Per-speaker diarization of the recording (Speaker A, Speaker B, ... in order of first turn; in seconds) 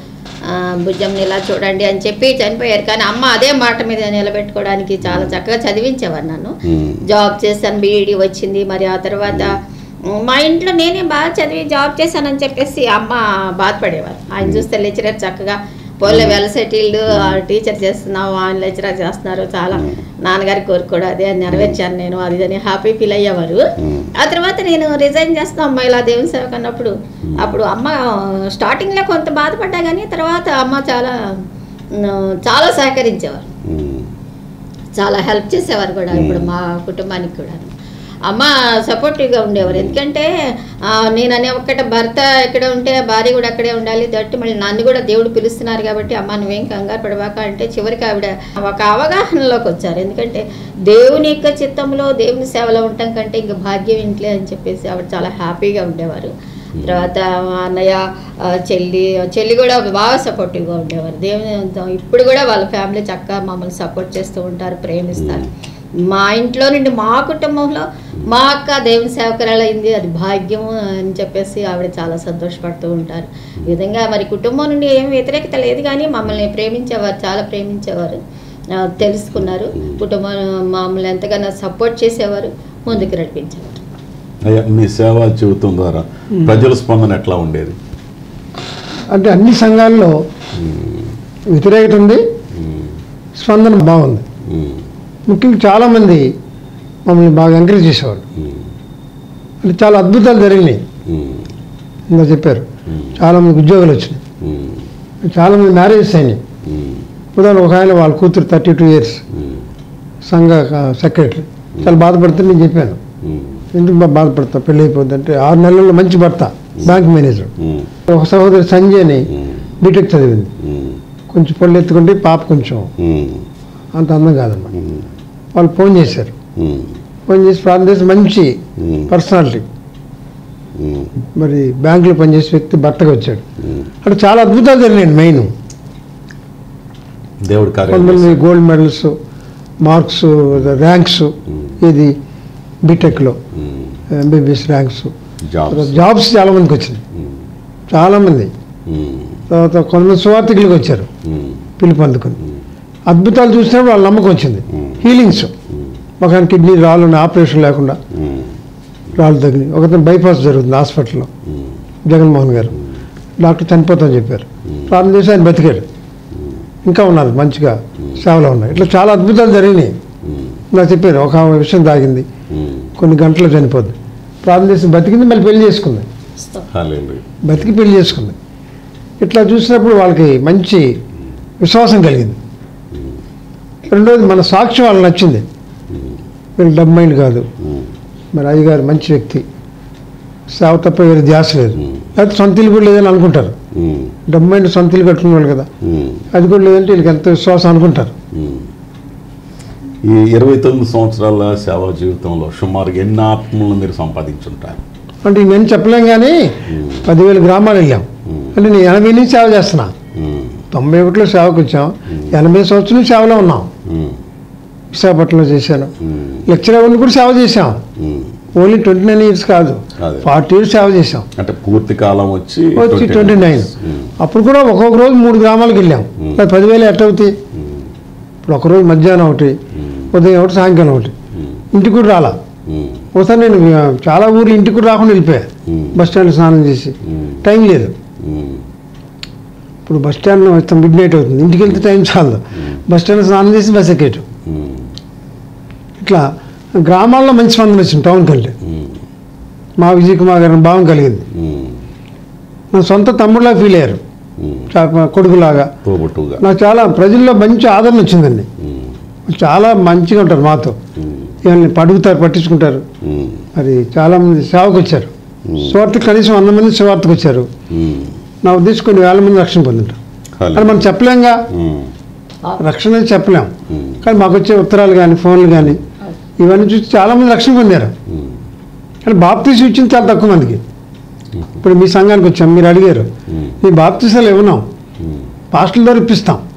Speaker A: 0.5-31.3, 31.9-33.5, 35.0-37.7, 38.3-78.2, 78.7-83.8
Speaker B: 5.1-5.3, 6.7-7.0, 9.3-9.6, 16.1-16.4, 17.1-17.4, 23.8-24.1, 27.3-27.6, 33.6-34.1, 36.1-36.5, 39.6-40.0, 56.8-57.1, 65.2-65.5, 84.4-87.8, 90.5-91.1, 92.5-93.0, 94.5-94.9, 98.4-98.7, 101.1-101.5, 102.9-103.2, 104.4-104.9, 106.7-107.1, 109.3-109.7, 113.2-113.7, 117.6-117.9, 120.6-121.0, 123.0-123.5, 124.7-125.1, 126.6-127.0, 128.8-129.1, 130.8-131.1, 133.6-133.9, 137.4-138.4, 143.6-144.0, 145.4-146.0, 148.9-149.4, 151.2-151.7, 154.8-155.0, 158.1-158.6, 164.7-164.9, 170.2-170.6, 172.5-172.9, 176.7-177.4, 185.9-186.2, 187.6-187.9, 193.7-194.2, 195.8-196.2, 198.3-198.7, 200.0-204.8, 206.7-207.0, 208.3-208.5, 210.2-210.6, 213.8-214.2, 216.0-216.4, 218.0-218.3, 220.0-220.3, 221.4-224.1, 226.2-226.4, 227.6-227.9, 229.8-230.1, 232.7-233.1, 235.7-236.0, 238.2-238.7, 244.5-244.9, 248.7-249.0, 251.3-251.9, 254.4-254.7, 255.8-256.4, 258.6-259.0, 261.0-261.3, 263.0-263.5, 265.4-265.8, 267.7-268.2, 270.4-270.9, 271.5-271.9, 273.7-274.1, 278.1-278.4, 283.3-283.6, 285.0-285.3
Speaker C: 89.1-90.2, 91.5-92.2, 93.4-94.2, 95.3-96.3, 97.1-98.2, 99.6-100.8, 102.1-102.7, 103.2-104.2, 105.2-106.4, 107.4-109.2, 110.3-113.0, 113.7-117.5, 118.1-119.3, 119.8-120.5, 121.3-122.9, 123.9-124.7, 125.5-126.3, 127.3-128.6, 129.1-129.7, 131.4-133.4, 134.0-135.5, 137.9-139.1, 139.8-142.1, 142.8-143.4, 144.1-145.1, 145.7-147.0, 147.9-148.5, 149.5-151.1, 151.8-152.4, 153.1-155.5, 156.2-158.0, 159.2-161.3, 162.1-162.8, 163.4-165.8, 166.9-170.0, 170.7-172.3, 173.0-176.1, 177.4-178.4, 179.2-180.9, 181.6-182.4, 183.9-185.4, 186.6-187.5, 188.3-189.4, 190.5-193.6, 194.3-195.7, 196.3-198.2, 205.2-209.9, 210.7-213.7, 214.9-215.9, 216.5-217.8, 218.6-221.3, 222.8-227.3, 228.4-229.6, 230.1-231.1, 231.7-232.4, 233.1-237.9, 239.9-244.2, 246.0-248.6, 249.8-251.2, 252.7-254.0, 254.7-255.7, 256.4-258.5, 259.3-260.8, 261.4-262.9, 263.6-267.5, 268.4-270.0, 270.5-271.4, 272.6-275.8, 276.4-277.9, 279.1-280.6, 281.6-283.1, 283.6-284.6, 285.5-286.4